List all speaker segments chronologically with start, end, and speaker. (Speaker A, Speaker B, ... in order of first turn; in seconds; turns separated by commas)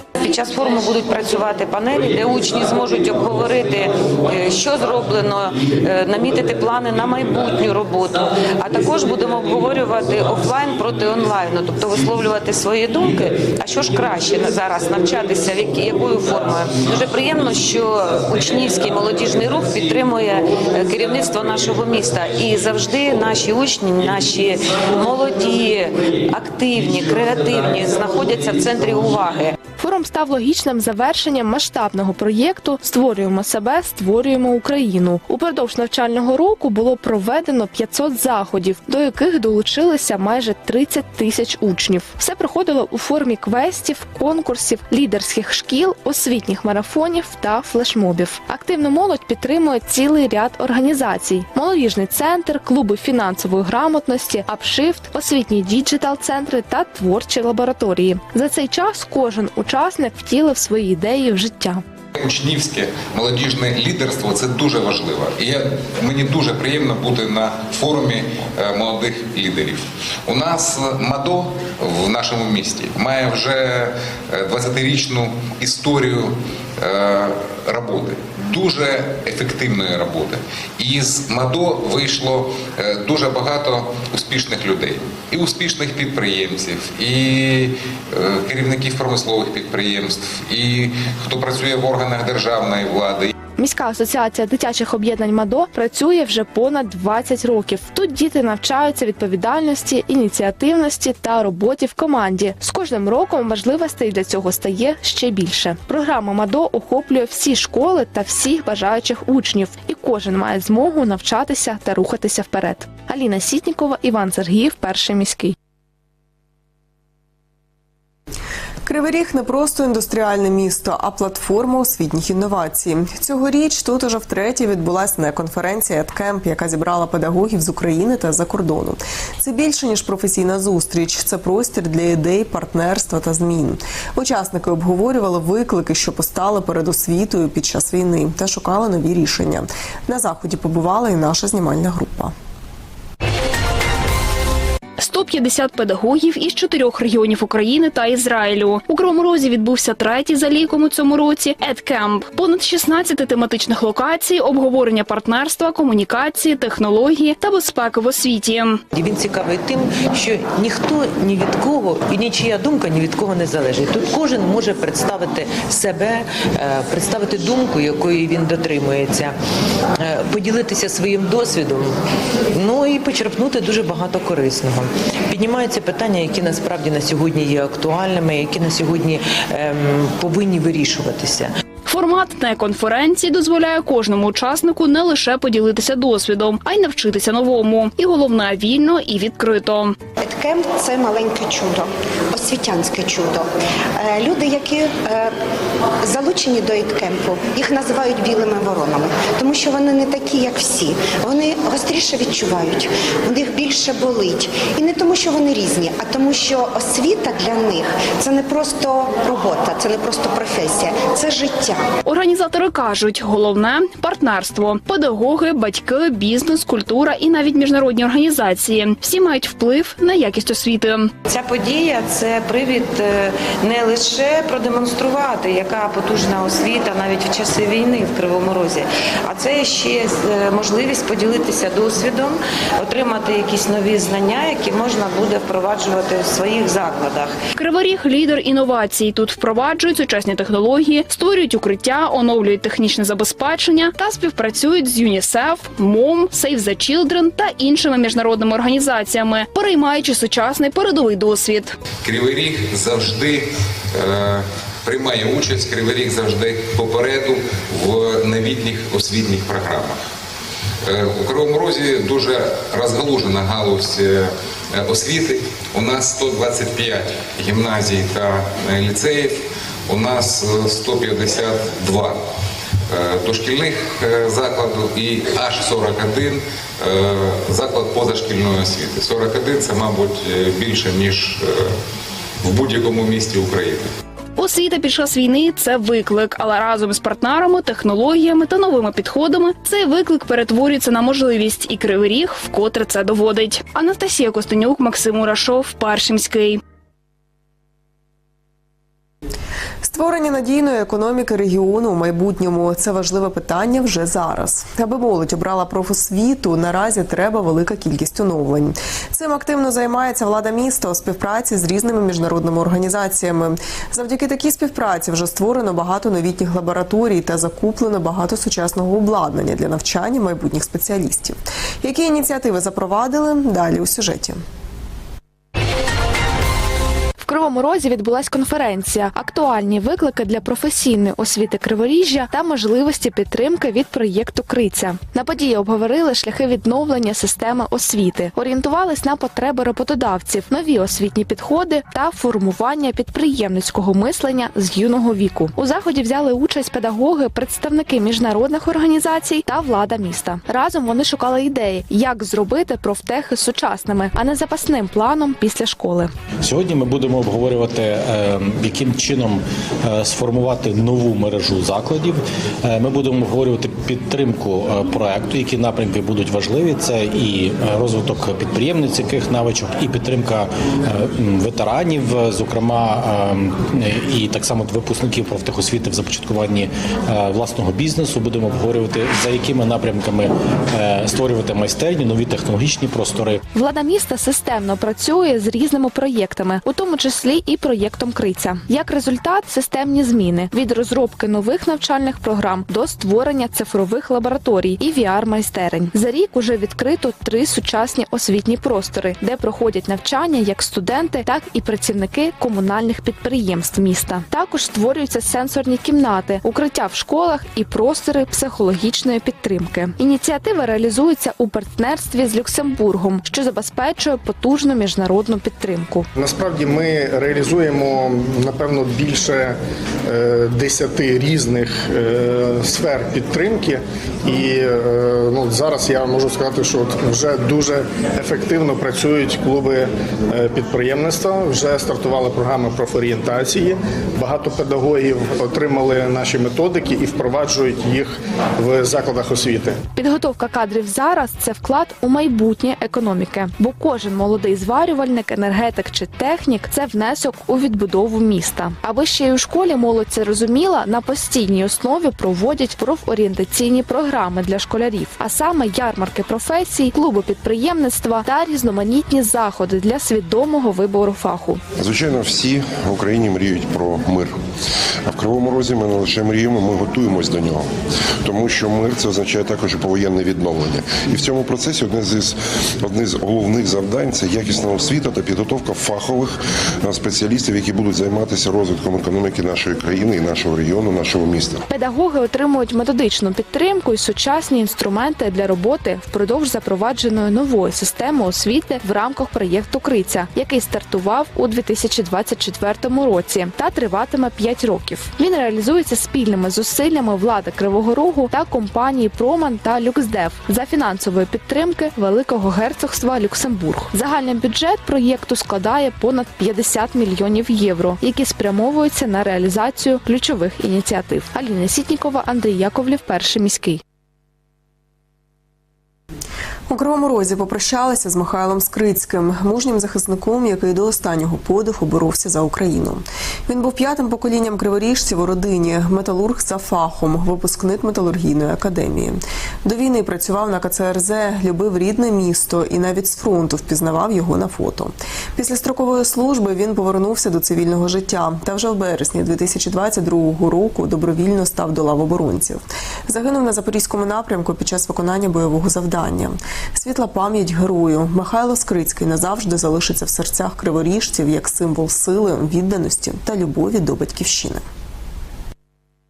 Speaker A: 0.2-29.6, Speaker B: 29.8-61.8, Speaker C: 62.1-93.3, Speaker B: 93.6-115.5, Speaker D: 118.8-142.3, Speaker E: 145.0-158.8, Speaker F: 158.9-169.3, Speaker F: 170.0-171.9, Speaker F: 172.5-181.5, Speaker E: 181.8-190.0, Speaker G: 190.2-195.3, Speaker G: 196.0-211.9, Speaker E: 212.0-221.1, Speaker A: 221.3-237.3, Speaker E: 237.6-251.8, Speaker C: 252.0-260.0, Speaker C: 260.8-272.2, Speaker C: 272.9-281.8, Speaker C: 282.4-283.9, Speaker E: 284.4-296.6, Speaker D: 299.8-324.4, Speaker B: 327.2-356.1, Speaker H: 356.4-383.4, Speaker B: 383.5-416.1, Speaker I: 416.1-439.8, Speaker B: 439.9-461.6, Speaker J: 461.8-464.4, Speaker J: 465.0-467.7, Speaker J: 468.2-481.6, Speaker B: 481.7-513.8, Speaker D: 516.7-554.6